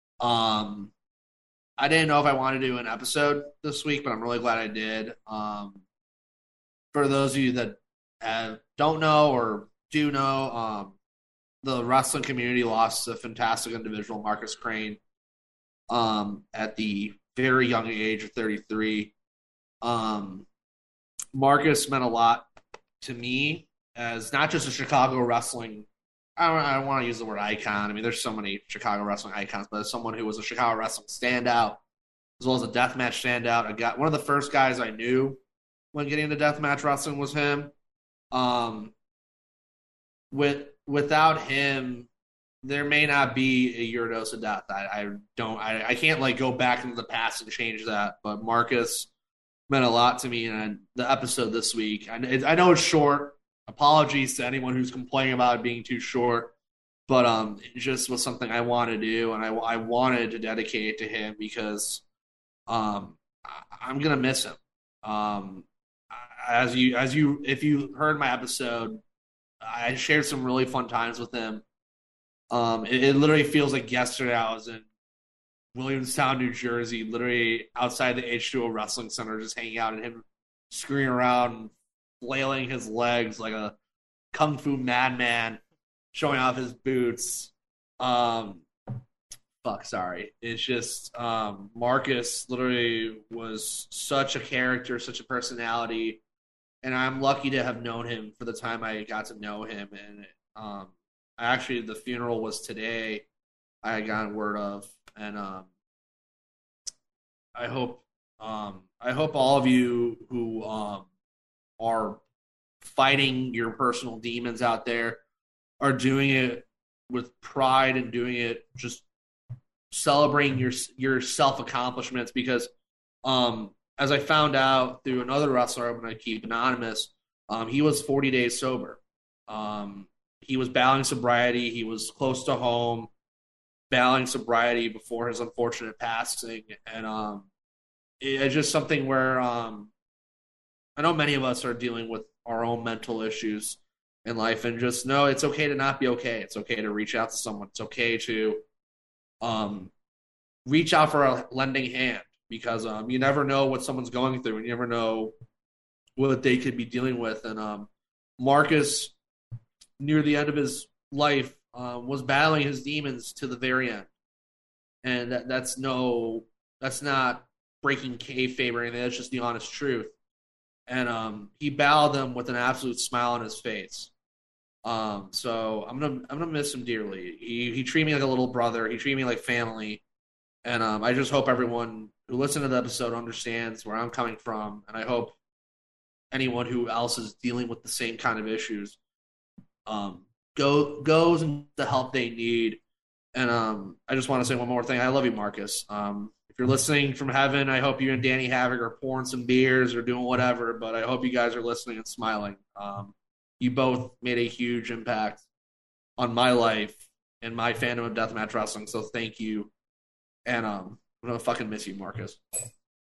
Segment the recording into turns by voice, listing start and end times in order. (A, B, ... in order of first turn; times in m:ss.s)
0:00.2-0:00.9 A
0:01.8-0:05.8 A
0:06.9-0:11.0 A
0:11.6-0:15.0 A
0:15.9-0:19.1 A
0:19.8-0:20.5 A
0:21.3-0:22.5 A
0:23.0-0:25.9 A
0:26.4-0:31.8 A
0:32.4-0:35.4 A
0:35.9-0:37.7 A
0:38.3-0:38.9 A
0:40.3-0:42.1 A
0:42.6-0:49.1 A
0:49.7-0:56.5 A
0:57.1-1:02.0 A
1:02.7-1:09.0 A
1:09.6-1:11.6 A
1:12.5-1:14.8 A
1:15.8-1:23.8 A
1:24.3-1:25.6 A
1:26.1-1:28.7 A
1:29.6-1:36.2 A
1:36.8-1:43.3 A
1:43.8-1:45.7 A
1:47.6-1:51.1 A
1:51.8-1:52.2 A
1:52.8-1:55.2 A
1:55.8-1:59.0 A
1:59.9-2:02.7 A
2:03.2-2:13.1 A
2:13.9-2:17.5 A
2:18.2-2:19.9 A
2:21.0-2:28.6 A
2:29.4-2:29.9 A
2:30.6-2:35.4 A
2:36.2-2:39.1 A
2:40.0-2:44.1 A
2:45.0-2:50.1 A
2:50.9-2:54.1 A
2:54.8-3:00.0 A
3:00.6-3:05.4 A
3:06.3-3:09.0 A
3:09.9-3:12.8 A
3:13.4-3:25.4 A
3:26.2-3:29.7 A
3:30.5-3:32.4 A